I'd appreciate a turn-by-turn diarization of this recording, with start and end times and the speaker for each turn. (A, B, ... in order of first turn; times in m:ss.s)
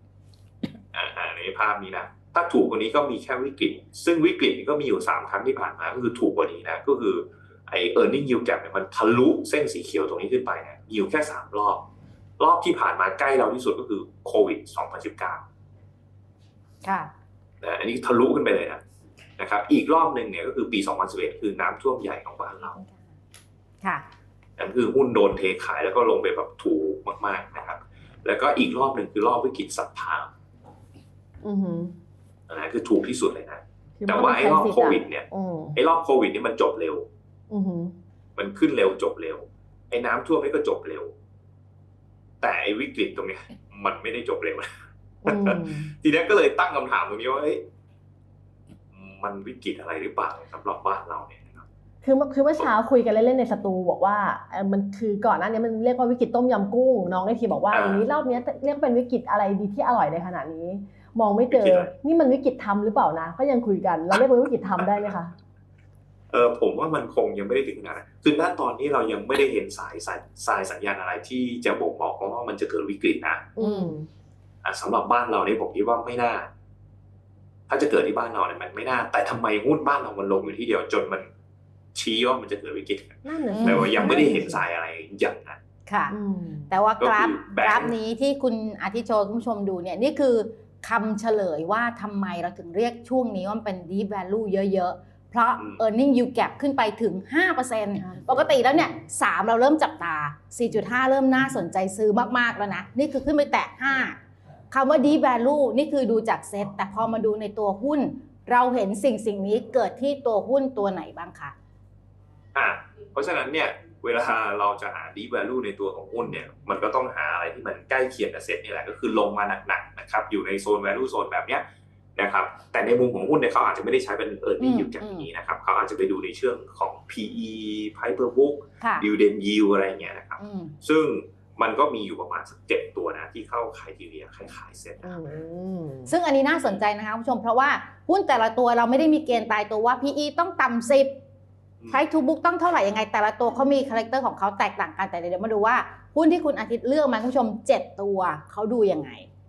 0:00.9-0:11.8 A
0:12.4-0:15.4 A
0:16.8-0:17.1 B
0:17.6-0:18.8 A
0:19.4-0:22.8 A
0:24.6-0:30.3 A
0:31.4-0:32.0 C
0:32.5-0:35.2 A
0:34.0-0:35.8 C
0:35.8-0:37.1 A
0:37.5-0:37.9 C
0:38.4-0:41.1 A
0:42.4-0:47.6 A
0:45.2-0:45.9 C
0:48.9-0:51.6 A
0:52.0-1:05.3 C
0:57.7-0:58.0 A
1:01.5-1:01.9 A
1:04.8-1:05.1 A
1:06.3-1:13.5 A
1:13.6-1:14.1 C
1:13.6-1:13.9 B
1:14.6-1:16.5 A
1:17.7-1:21.3 A
1:21.9-1:25.6 A
1:23.2-1:24.6 C
1:23.5-1:24.2 B
1:25.9-1:26.2 B
1:26.1-1:26.7 C
1:26.7-1:44.2 B
1:27.0-1:28.0 A
1:38.0-1:38.3 C
1:44.7-1:51.5 B
1:52.5-2:01.6 A
2:02.2-2:15.2 A
2:04.6-2:05.3 B
2:08.8-2:09.1 B
2:10.4-2:10.8 B
2:15.0-2:16.1 C
2:16.1-2:21.2 B
2:21.9-2:29.3 B